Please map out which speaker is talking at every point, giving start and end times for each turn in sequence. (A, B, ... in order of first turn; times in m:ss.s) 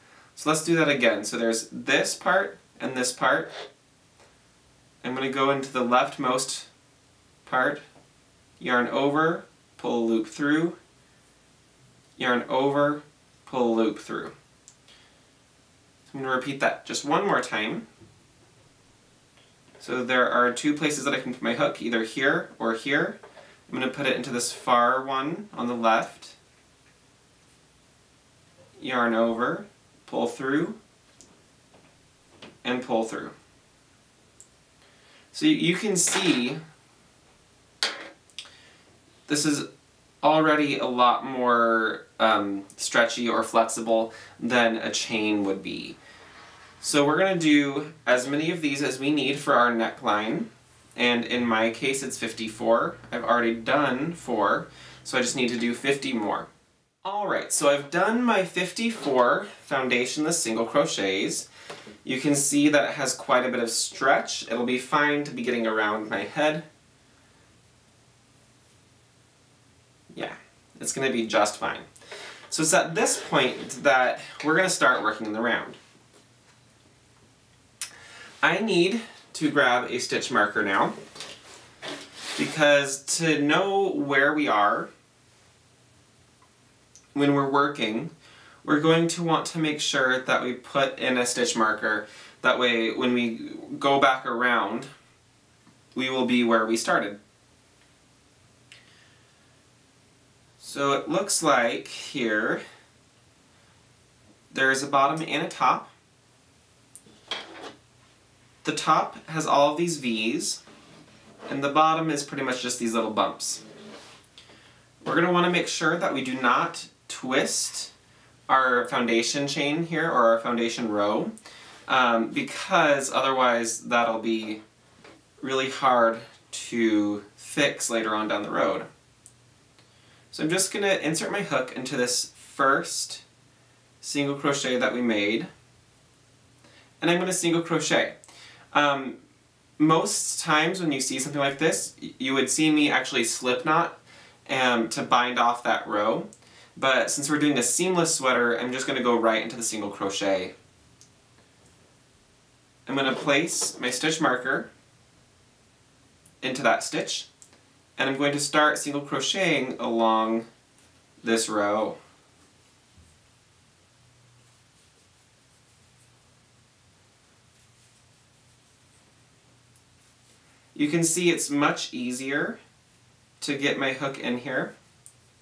0:00.4-0:03.5 A
0:05.0-0:06.7 A
0:07.4-0:07.8 A
0:08.6-0:10.8 A
0:12.2-0:14.3 A
0:16.1-0:17.9 A
0:19.8-0:26.4 A
0:28.8-0:30.8 A
0:32.6-0:33.3 A
0:35.3-0:36.6 A
0:39.3-0:39.7 A
0:40.2-0:46.0 A
0:46.8-0:56.5 A
0:57.0-1:01.5 A
1:02.0-1:06.6 A
1:10.1-1:11.9 A
1:12.5-1:15.8 A
1:18.4-1:20.9 A
1:22.4-1:24.9 A
1:27.1-1:28.1 A
1:28.6-1:34.9 A
1:35.9-1:37.2 A
1:40.6-1:42.6 A
1:44.5-1:45.9 A
1:48.6-1:50.6 A
1:51.5-1:53.6 A
1:55.0-1:57.9 A
1:58.5-2:01.3 A
2:01.9-2:04.6 A
2:05.4-2:08.9 A
2:10.3-2:13.2 A
2:14.0-2:15.5 A
2:17.0-2:18.2 A
2:18.7-2:19.2 A
2:19.8-2:30.5 A
2:32.9-2:34.7 A
2:36.4-2:37.3 A
2:38.0-2:40.5 A
2:41.2-2:42.0 A
2:50.7-2:52.6 A
2:53.4-2:54.7 A